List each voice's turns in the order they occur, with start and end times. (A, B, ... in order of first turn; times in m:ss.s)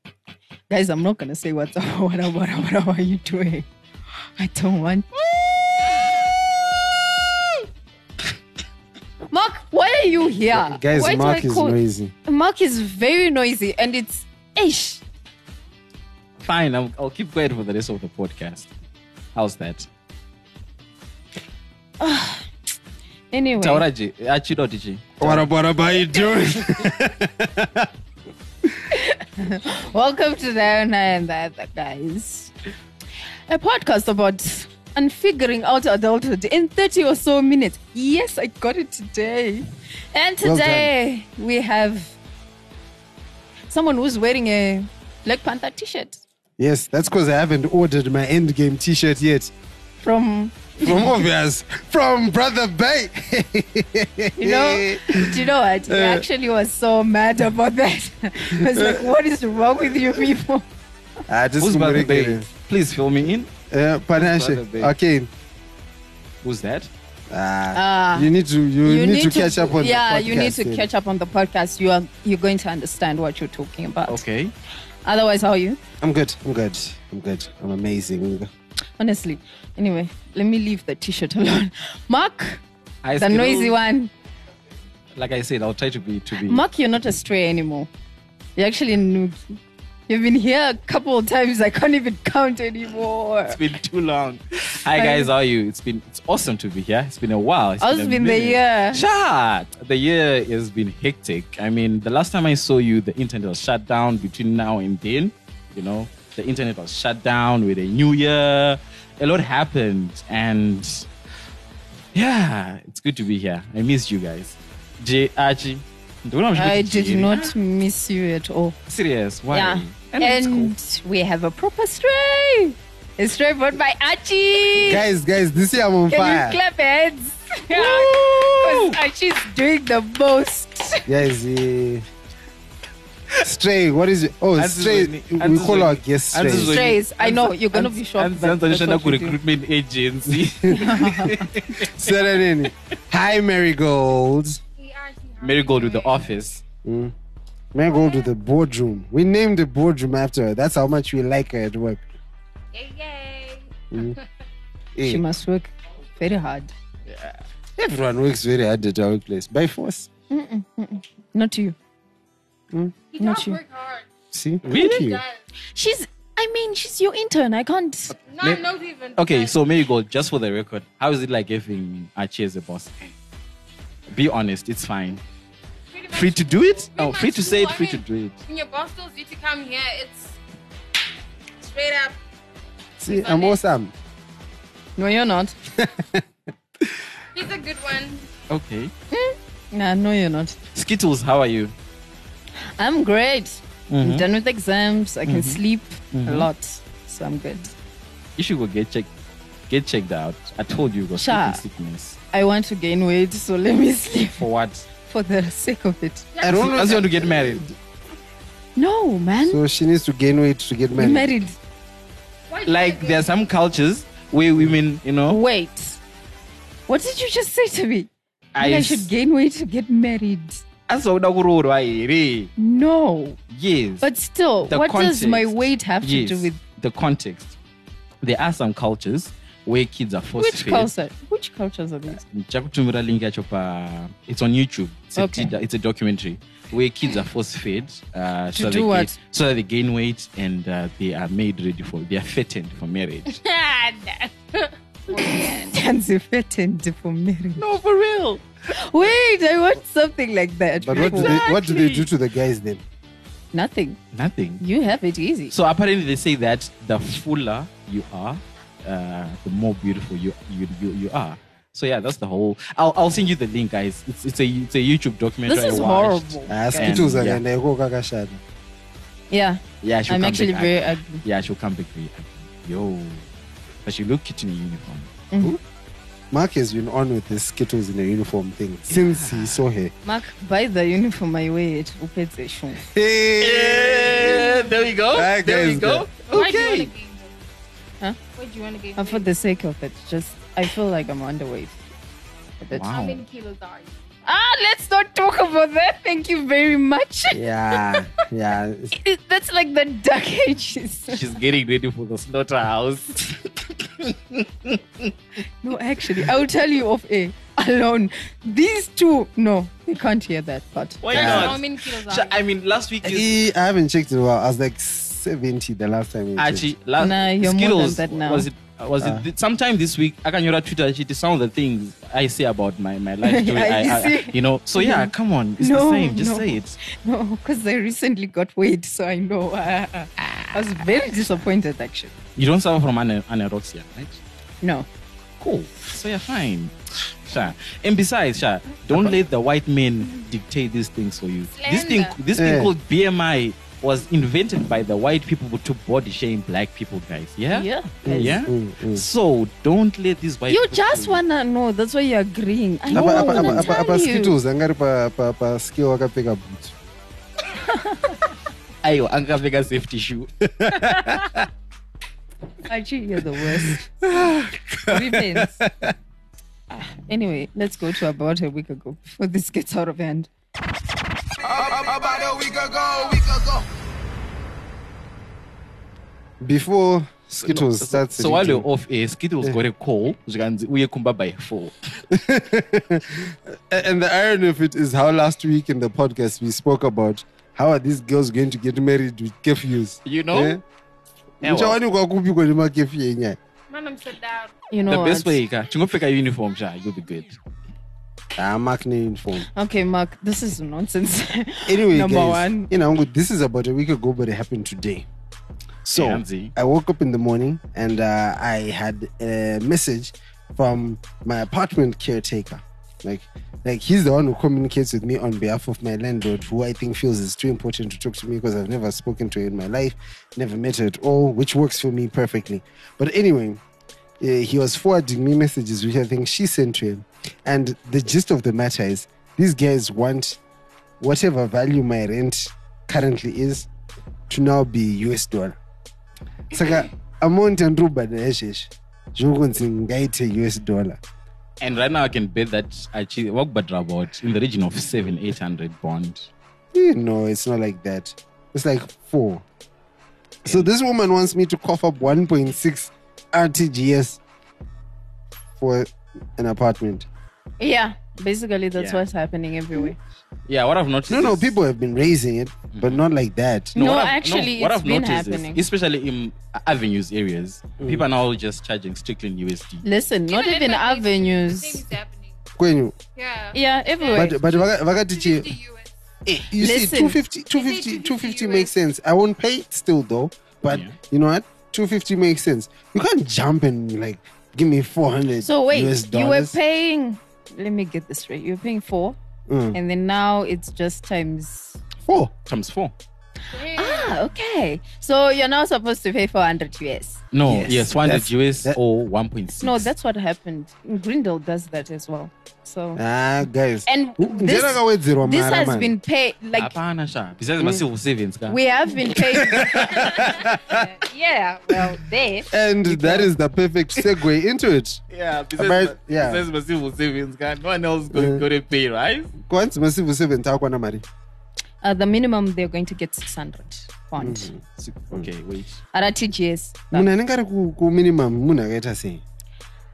0:00.7-0:03.7 A
0:04.4-0:05.1 A
0:09.3-0:15.0 A
0:10.5-0:12.1 B
0:16.4-0:18.7 C
0:19.3-0:19.9 C
0:22.0-0:22.5 A
0:23.3-0:23.8 A
0:23.6-0:25.4 C
0:25.2-0:27.9 B
0:28.9-0:32.5 A
0:33.5-0:42.2 A
0:40.4-0:40.9 B
0:43.7-0:46.2 A
0:46.6-0:49.5 B
0:50.0-0:51.1 A
0:50.8-0:56.3 B
0:54.4-1:00.6 A
0:58.5-0:59.1 B
1:01.3-1:02.5 B
1:01.6-1:03.5 C
1:03.7-1:05.3 B
1:04.2-1:04.9 C
1:06.4-1:06.9 C
1:07.3-1:10.9 B
1:07.7-1:08.3 A
1:08.8-1:14.2 A
1:14.1-1:14.5 C
1:15.0-1:15.8 A
1:16.0-1:18.5 B
1:19.0-1:22.6 A
1:23.0-1:23.8 C
1:23.2-1:24.1 A
1:25.2-1:26.6 C
1:26.4-1:27.9 A
1:28.6-1:33.6 A
1:33.5-1:51.1 C
1:34.9-1:35.3 A
1:37.8-1:39.0 A
1:52.1-1:57.5 C
1:56.5-1:58.8 A
1:58.9-2:00.7 C
1:59.5-2:05.0 A
2:04.8-2:06.6 B
2:06.1-2:11.1 A
2:07.7-2:09.0 C
2:11.0-2:12.0 B
2:13.4-2:16.8 B
2:14.6-2:22.1 C
2:16.7-2:19.4 A
2:20.4-2:20.8 B
2:20.7-2:21.5 A
2:21.7-2:24.6 B
2:24.8-2:26.3 D
2:25.4-2:26.6 C
2:26.8-2:27.1 B
2:27.7-2:32.0 B
2:27.9-2:28.3 D
2:32.7-2:34.2 D
2:33.9-2:34.2 B
2:34.9-2:35.2 B
2:35.0-2:36.7 A
2:37.1-2:37.4 C
2:37.8-2:40.1 B
2:40.3-2:41.7 A
2:43.1-2:44.1 D
2:43.2-2:43.6 A
2:44.3-2:45.2 B
2:44.7-2:45.0 C
2:44.7-2:45.4 D
2:45.7-2:48.1 A
2:48.3-2:49.5 D
2:49.2-2:53.1 C
2:54.1-2:55.2 C
2:55.9-3:00.4 D
2:56.1-2:58.4 C
3:01.6-3:02.2 D
3:03.0-3:03.9 B
3:03.1-3:03.6 D
3:05.0-3:05.6 A
3:05.8-3:06.2 B
3:07.3-3:08.2 D
3:08.5-3:08.9 C
3:09.1-3:10.6 A
3:10.7-3:11.7 C
3:12.6-3:17.7 A
3:13.9-3:14.2 C
3:15.2-3:15.6 C
3:16.1-3:16.5 C
3:18.4-3:19.1 C
3:19.7-3:22.2 C
3:21.2-3:21.6 A
3:22.3-3:24.5 A
3:24.4-3:24.8 C
3:25.0-3:26.3 A
3:26.3-3:27.0 D
3:26.4-3:27.8 B
3:26.4-3:27.7 C
3:28.8-3:29.6 A
3:29.4-3:31.3 B
3:31.0-3:31.6 A
3:32.5-3:33.3 D
3:32.6-3:35.4 C
3:35.3-3:36.0 A
3:36.9-3:40.6 A
3:38.5-3:39.1 C
3:40.9-3:42.5 C
3:42.6-3:43.4 A
3:43.5-3:44.1 C
3:44.0-3:46.6 A
3:44.7-3:47.6 C
3:48.2-3:50.9 C
3:50.4-3:52.2 A
3:52.2-4:03.3 C
3:55.2-3:55.5 A
3:58.5-3:59.2 A
4:03.3-4:05.5 D
4:05.1-4:07.6 A
4:07.6-4:08.4 C
4:08.7-4:11.5 A
4:10.8-4:12.8 B
4:10.9-4:12.1 C
4:13.5-4:14.0 A
4:14.1-4:14.6 C
4:14.6-4:15.5 A
4:15.5-4:27.4 C
4:25.4-4:26.9 A
4:26.5-4:28.4 B
4:29.3-4:31.2 A
4:29.8-4:33.2 C
4:33.8-4:35.1 C
4:36.3-4:39.9 B
4:38.9-4:39.6 C
4:40.0-4:42.8 A
4:42.9-4:44.5 B
4:43.4-4:46.9 C
4:44.2-4:44.8 D
4:45.1-4:46.1 B
4:46.2-4:47.4 D
4:48.3-4:49.3 D
4:49.0-4:51.8 A
4:52.6-4:52.9 A
4:52.7-4:53.2 C
4:52.9-4:54.0 D
4:54.2-4:57.9 A
4:57.3-4:58.9 B
4:58.9-5:01.2 A
5:01.1-5:05.1 C
5:05.6-5:11.3 A
5:11.0-5:13.3 C
5:11.1-5:11.6 B
5:11.1-5:12.4 D
5:13.0-5:16.7 B
5:16.4-5:26.8 C
5:17.0-5:18.5 A
5:19.0-5:19.2 B
5:23.2-5:32.1 A
5:30.2-5:30.6 C
5:32.4-5:34.2 C
5:34.6-5:34.9 A
5:35.4-5:36.7 C
5:37.2-5:51.2 C
5:41.5-5:42.2 D
5:42.3-5:42.7 B
5:47.5-5:48.4 A
5:48.0-5:49.0 B
5:50.5-5:54.3 A
5:52.9-5:56.7 B
5:52.9-5:53.7 C
5:57.7-5:58.2 A
5:58.8-6:01.4 C
6:00.6-6:01.4 B
6:02.7-6:03.8 A
6:04.0-6:05.9 B
6:04.9-6:05.6 A
6:06.7-6:10.3 A
6:11.5-6:13.6 B
6:16.4-6:18.6 B
6:17.4-6:21.7 C
6:22.1-6:30.6 B
6:30.0-6:30.6 C
6:31.4-6:33.4 B
6:31.4-6:31.8 C
6:33.7-6:34.5 D
6:34.7-6:35.4 A
6:34.9-6:37.4 C
6:38.4-6:39.5 B
6:39.5-6:42.7 A
6:41.6-6:45.1 B
6:45.8-7:03.6 B
6:45.9-6:46.5 C
7:04.2-7:10.4 B
7:11.0-7:13.7 B
7:14.3-7:15.6 B
7:16.5-7:21.0 B
7:21.6-7:26.3 C
7:26.7-7:29.4 B
7:30.4-7:34.2 B
7:35.6-7:37.1 B
7:37.6-7:40.0 A
7:38.8-7:39.0 C
7:40.5-7:41.5 C
7:41.1-7:43.7 B
7:42.7-7:43.0 C
7:43.7-7:49.8 C
7:43.7-7:45.6 A
7:47.8-7:48.0 B
7:49.8-7:51.8 A
7:50.3-7:52.4 D
7:52.6-7:52.9 B
7:53.1-7:55.9 D
7:53.5-7:54.4 A
7:54.1-7:55.5 B
7:56.2-8:06.6 B
7:56.6-7:57.2 A
7:57.5-7:58.7 D
8:00.6-8:00.9 C
8:05.4-8:09.2 A
8:09.5-8:09.8 B
8:09.7-8:11.8 A
8:12.1-8:12.3 B
8:12.4-8:12.9 C
8:13.5-8:14.3 D
8:13.7-8:17.2 A
8:17.3-8:19.9 C
8:17.4-8:18.8 B
8:19.6-8:23.0 A
8:23.0-8:25.9 B
8:23.8-8:26.7 A
8:26.5-8:28.6 C
8:28.5-8:33.3 A
8:29.2-8:30.8 B
8:29.6-8:30.2 C
8:32.5-8:35.0 B
8:35.1-8:39.3 C
8:35.5-8:36.4 B
8:38.1-8:38.4 B
8:39.4-8:41.0 B
8:41.8-8:44.5 A
8:44.2-8:44.6 B
8:44.8-8:45.8 C
8:45.9-8:47.1 A
8:46.9-8:49.2 B